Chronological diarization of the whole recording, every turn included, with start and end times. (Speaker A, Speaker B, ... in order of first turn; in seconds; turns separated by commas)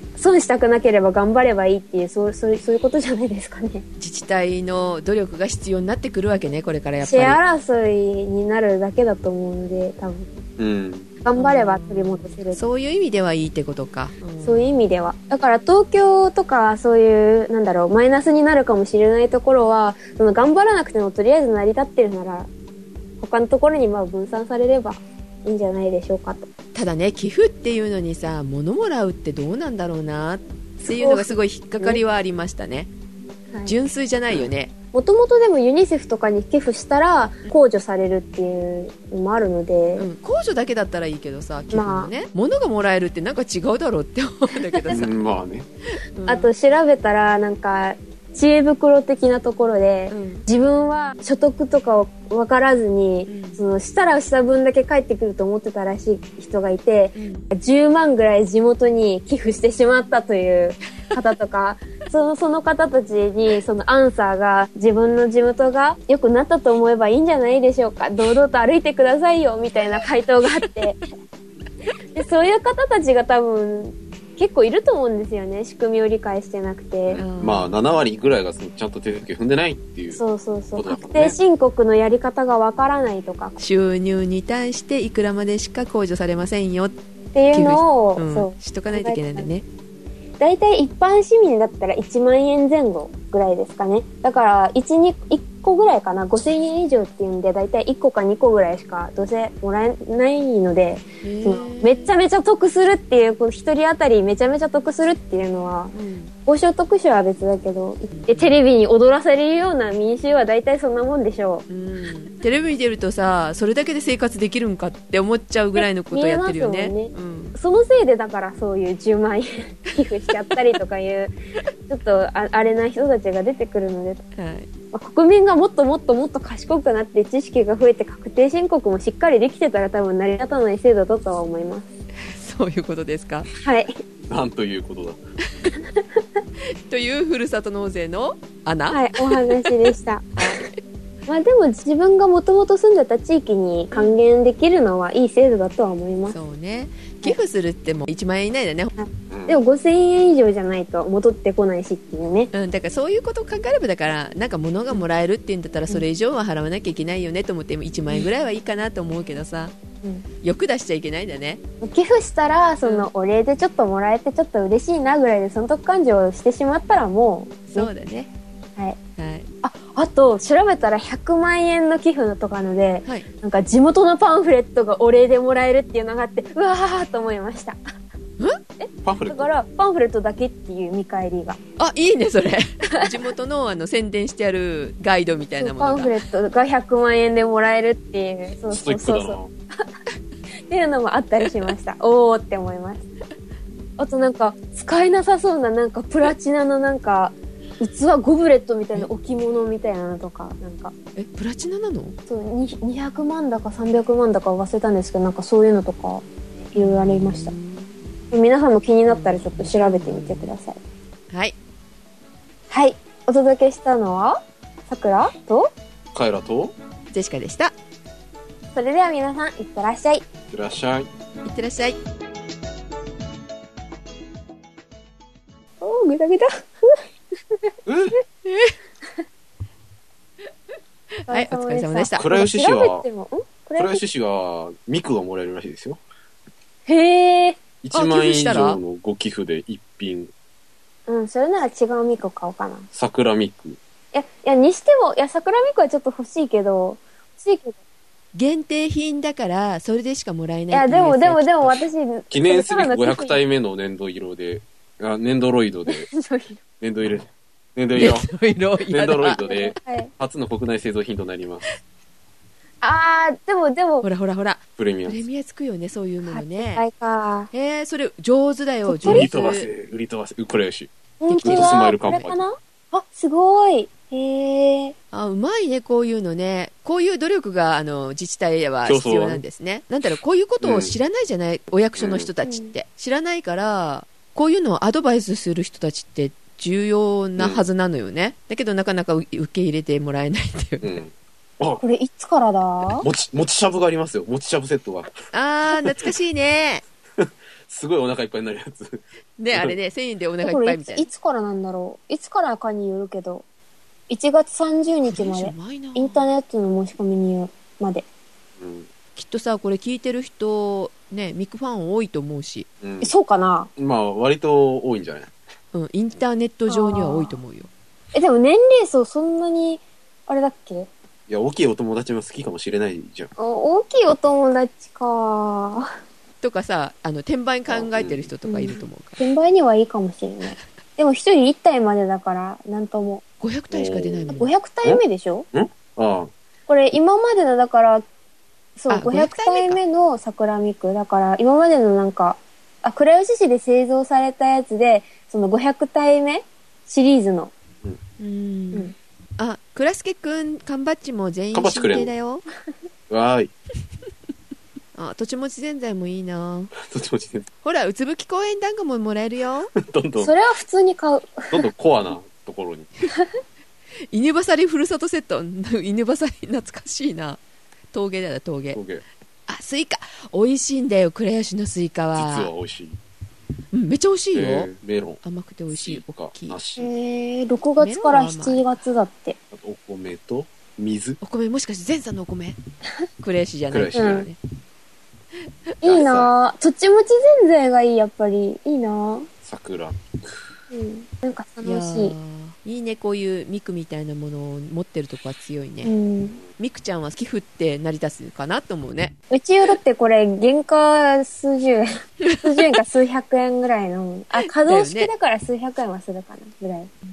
Speaker A: 0.1-3.8, Speaker B: 4.0-7.4, Speaker A: 7.0-10.3, Speaker C: 10.6-11.1, Speaker A: 11.2-12.6, Speaker B: 11.4-14.8, Speaker A: 14.4-22.5, Speaker A: 23.2-26.5, Speaker B: 26.7-32.9, Speaker A: 30.8-32.0, Speaker B: 33.6-34.7, Speaker A: 34.9-40.1, Speaker B: 40.0-45.1, Speaker A: 41.7-42.1, Speaker A: 44.7-45.0, Speaker C: 44.9-45.7, Speaker B: 46.0-46.5, Speaker A: 46.3-71.0, Speaker B: 50.1-50.4, Speaker B: 53.3-53.6, Speaker B: 57.1-57.5, Speaker A: 72.1-77.2, Speaker C: 77.1-80.2, Speaker B: 77.2-77.8, Speaker A: 80.2-83.6, Speaker C: 80.7-81.4, Speaker B: 83.6-86.9, Speaker A: 87.3-89.5, Speaker B: 87.5-89.6, Speaker A: 90.4-105.9, Speaker B: 101.2-102.1, Speaker B: 105.9-106.3, Speaker A: 106.5-111.7, Speaker B: 108.1-108.5, Speaker B: 111.7-117.5, Speaker A: 115.8-121.3, Speaker A: 121.9-124.2, Speaker B: 124.4-124.7, Speaker A: 124.9-131.9, Speaker B: 132.2-133.5, Speaker A: 133.5-134.0, Speaker C: 134.3-135.2, Speaker B: 136.7-139.9, Speaker A: 138.9-140.7, Speaker B: 140.4-140.8, Speaker A: 141.3-146.4, Speaker B: 146.3-148.9, Speaker A: 149.0-152.5, Speaker C: 149.3-149.6, Speaker B: 152.5-159.7, Speaker B: 160.4-161.6, Speaker A: 161.8-167.9, Speaker B: 162.8-163.1, Speaker B: 167.7-168.3, Speaker B: 169.2-169.5, Speaker A: 169.6-177.8, Speaker A: 178.8-181.6, Speaker C: 179.0-179.5, Speaker B: 181.8-186.1, Speaker A: 185.6-189.4, Speaker C: 188.7-189.5, Speaker A: 190.7-193.0, Speaker A: 194.0-200.9, Speaker B: 201.2-202.2, Speaker A: 202.3-207.5, Speaker B: 206.8-207.9, Speaker A: 208.3-210.8, Speaker B: 209.1-210.5, Speaker B: 211.3-211.6, Speaker A: 212.7-215.7, Speaker C: 216.1-216.7, Speaker B: 217.1-217.7, Speaker A: 218.7-220.2, Speaker C: 220.5-221.1, Speaker B: 221.4-222.0, Speaker A: 225.8-227.7, Speaker C: 227.8-228.2, Speaker B: 228.4-228.8, Speaker B: 231.2-232.2, Speaker A: 231.3-234.0, Speaker C: 232.2-233.0, Speaker C: 233.8-236.0, Speaker A: 236.9-237.6, Speaker C: 237.8-240.3, Speaker B: 237.9-238.8, Speaker A: 241.1-242.9, Speaker C: 242.9-243.8, Speaker A: 244.1-247.8, Speaker B: 248.3-251.8, Speaker A: 250.7-253.3, Speaker C: 252.3-256.1, Speaker A: 255.9-256.6, Speaker C: 256.8-258.3, Speaker B: 257.9-259.8, Speaker C: 258.9-261.6, Speaker A: 259.4-260.1, Speaker A: 262.8-264.1, Speaker B: 264.0-266.8, Speaker C: 264.8-265.2, Speaker A: 266.2-267.5, Speaker B: 267.5-269.7, Speaker A: 268.9-269.3, Speaker C: 269.0-272.4, Speaker A: 271.2-274.9, Speaker B: 271.3-272.3, Speaker B: 275.1-291.0, Speaker C: 278.8-279.4, Speaker C: 280.6-280.9, Speaker C: 281.9-282.3, Speaker A: 282.4-282.7, Speaker C: 287.4-287.6, Speaker C: 290.8-291.8, Speaker A: 291.8-293.1, Speaker C: 292.9-295.1, Speaker B: 295.3-296.8, Speaker C: 295.7-296.1, Speaker C: 297.2-299.8, Speaker B: 299.4-301.1, Speaker A: 300.4-303.4, Speaker A: 304.1-308.0, Speaker B: 305.0-306.3, Speaker C: 308.6-308.9, Speaker B: 309.1-312.7, Speaker C: 312.8-313.1, Speaker A: 313.0-313.7, Speaker C: 313.8-315.3, Speaker B: 315.7-317.7, Speaker A: 316.7-317.4, Speaker A: 318.1-320.9, Speaker C: 321.3-323.3, Speaker A: 323.4-325.9, Speaker B: 326.4-329.2, Speaker C: 327.7-328.3, Speaker A: 328.4-333.2, Speaker B: 333.4-334.5, Speaker C: 333.7-334.3, Speaker A: 334.4-335.4, Speaker C: 334.8-336.3, Speaker A: 336.7-338.0, Speaker A: 338.8-347.5, Speaker B: 338.9-339.8, Speaker B: 348.2-352.4, Speaker C: 351.5-352.1, Speaker C: 353.1-353.5, Speaker B: 354.9-356.7, Speaker C: 356.8-357.5, Speaker B: 357.6-359.7, Speaker C: 359.8-360.3, Speaker A: 360.2-361.7, Speaker C: 361.5-362.9, Speaker B: 364.1-367.4, Speaker B: 367.9-368.8, Speaker C: 368.7-369.0, Speaker B: 369.5-372.5, Speaker C: 372.1-373.0, Speaker B: 373.7-374.7, Speaker C: 374.3-376.9, Speaker B: 375.2-376.6, Speaker A: 376.8-379.4, Speaker B: 377.8-378.7, Speaker C: 379.5-381.2, Speaker B: 381.2-382.6, Speaker B: 383.2-384.4, Speaker C: 383.7-384.3, Speaker A: 383.9-384.3, Speaker A: 385.8-389.3, Speaker C: 385.8-386.3, Speaker C: 389.4-390.5, Speaker A: 390.7-392.1, Speaker B: 391.6-395.9, Speaker A: 395.8-396.4, Speaker B: 396.6-399.1, Speaker A: 399.3-401.9, Speaker B: 402.2-402.8, Speaker A: 402.4-406.9, Speaker B: 404.3-405.1